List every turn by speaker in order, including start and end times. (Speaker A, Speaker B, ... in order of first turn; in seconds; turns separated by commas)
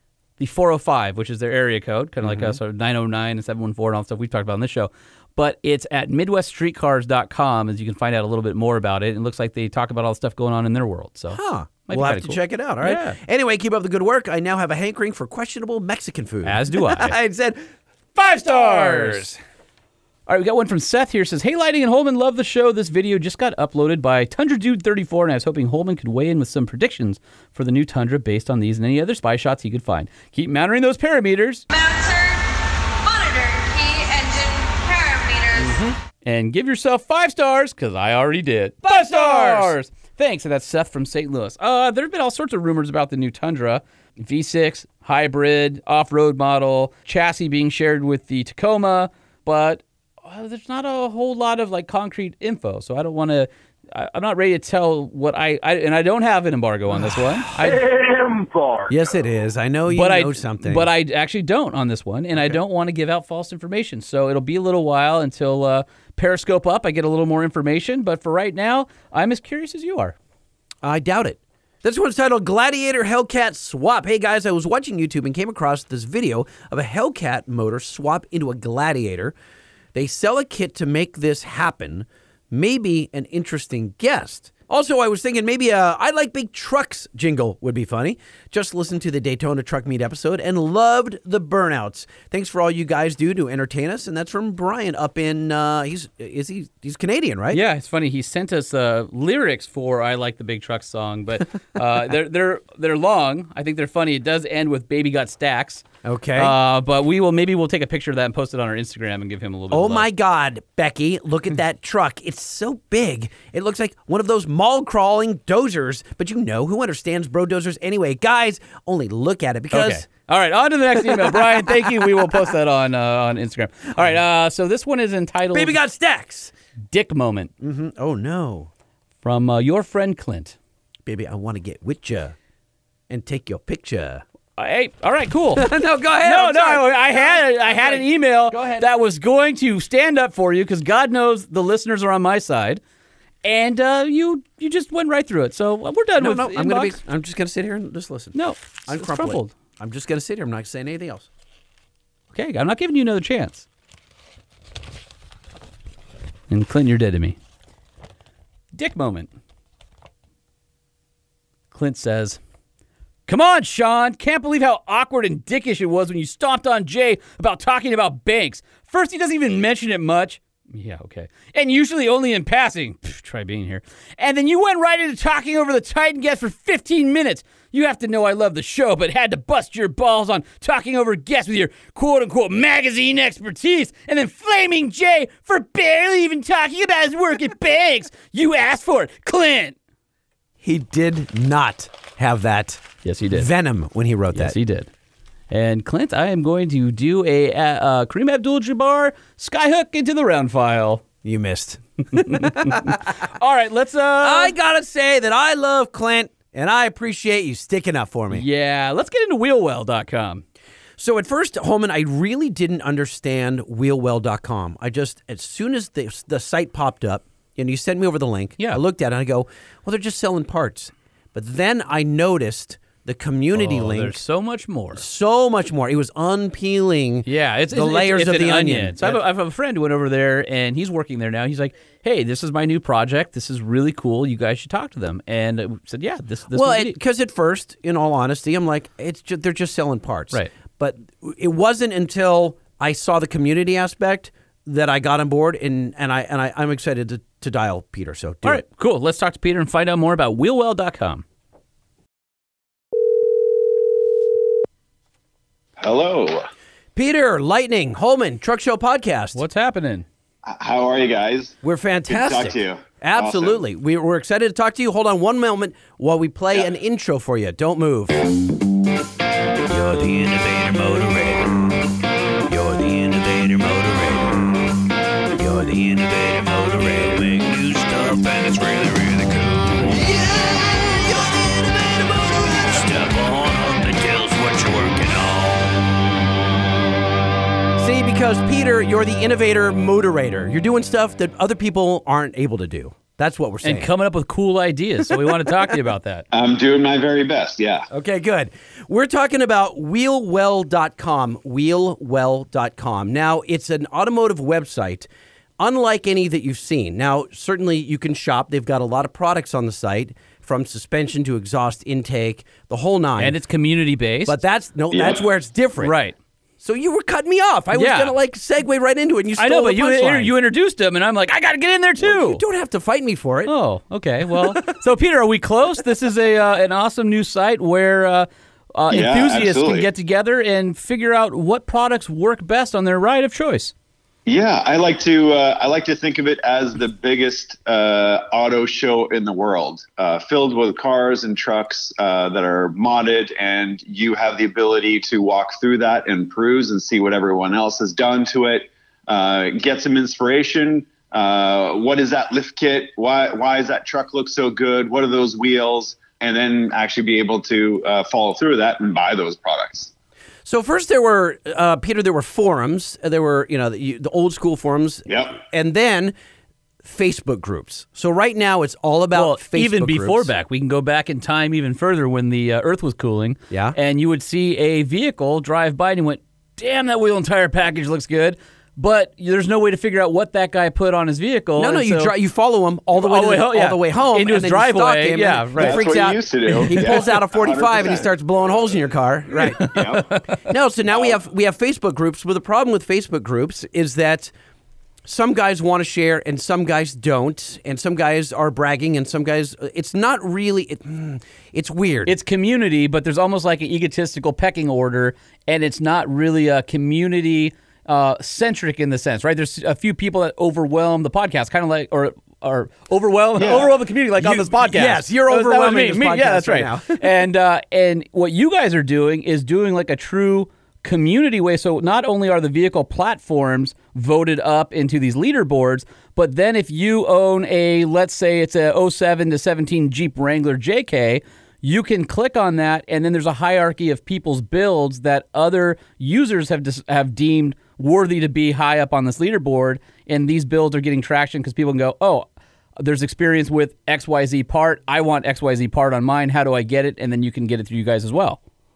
Speaker A: 0.4-13.2, Speaker B: 2.2-2.6, Speaker B: 11.3-17.6, Speaker A: 16.4-17.1, Speaker A: 18.1-19.3, Speaker B: 18.4-19.4, Speaker A: 20.3-31.7, Speaker C: 31.7-32.5, Speaker C: 33.0-35.8, Speaker B: 35.6-36.0, Speaker A: 36.2-57.9, Speaker B: 38.8-39.7, Speaker B: 58.9-60.9, Speaker A: 59.9-70.1, Speaker B: 70.8-79.3, Speaker B: 79.9-97.6, Speaker A: 97.5-105.8, Speaker B: 106.0-106.5, Speaker A: 106.4-110.1, Speaker B: 109.7-120.0, Speaker A: 119.7-125.8, Speaker B: 121.2-121.7, Speaker B: 125.5-126.5, Speaker A: 126.9-127.5, Speaker B: 127.6-128.7, Speaker A: 129.2-130.6, Speaker B: 131.1-132.3, Speaker B: 133.1-134.2, Speaker A: 134.6-142.8, Speaker B: 135.6-138.9, Speaker A: 143.4-147.0, Speaker B: 146.2-151.3, Speaker A: 148.3-149.5, Speaker A: 152.3-153.7, Speaker A: 156.5-157.4, Speaker A: 158.7-159.3, Speaker A: 161.7-162.4, Speaker A: 163.3-189.8, Speaker B: 190.6-194.6, Speaker A: 193.0-193.5, Speaker A: 194.3-194.9, Speaker A: 195.5-201.0, Speaker B: 201.2-203.1, Speaker A: 202.3-204.6, Speaker B: 204.2-208.4, Speaker A: 208.3-210.4, Speaker B: 211.0-224.2, Speaker A: 223.5-225.0, Speaker B: 224.9-229.2, Speaker A: 227.2-236.9, Speaker B: 236.5-248.6, Speaker A: 248.4-251.2, Speaker D: 255.8-256.4, Speaker B: 256.9-259.4, Speaker A: 259.3-260.1, Speaker D: 260.4-261.6, Speaker B: 261.6-268.2, Speaker D: 262.1-263.6, Speaker E: 269.7-271.6, Speaker E: 272.5-274.4, Speaker E: 275.4-279.7, Speaker B: 279.9-280.5, Speaker E: 281.1-281.5, Speaker B: 281.4-282.5, Speaker E: 282.4-285.7, Speaker B: 287.8-293.9, Speaker A: 293.6-296.2, Speaker D: 296.3-297.9, Speaker B: 297.9-305.1, Speaker B: 305.6-313.4, Speaker A: 313.2-314.4, Speaker B: 314.3-315.9, Speaker D: 314.9-315.2, Speaker A: 315.8-316.1, Speaker B: 316.6-320.3, Speaker A: 317.7-318.1, Speaker A: 319.4-322.4, Speaker B: 322.0-323.5, Speaker A: 323.4-333.7, Speaker B: 324.3-324.7, Speaker D: 328.9-329.9, Speaker D: 334.3-359.9, Speaker B: 360.4-366.1, Speaker D: 365.1-365.4, Speaker B: 366.8-370.3, Speaker A: 369.1-382.1, Speaker B: 373.5-373.8, Speaker B: 381.6-394.3, Speaker A: 382.9-385.9, Speaker D: 385.6-388.7, Speaker A: 386.7-387.2, Speaker D: 389.3-390.1, Speaker D: 390.9-391.2, Speaker B: 395.1-402.1, Speaker A: 402.1-442.3, Speaker D: 413.4-413.8, Speaker B: 414.2-417.0, Speaker A: 442.8-448.4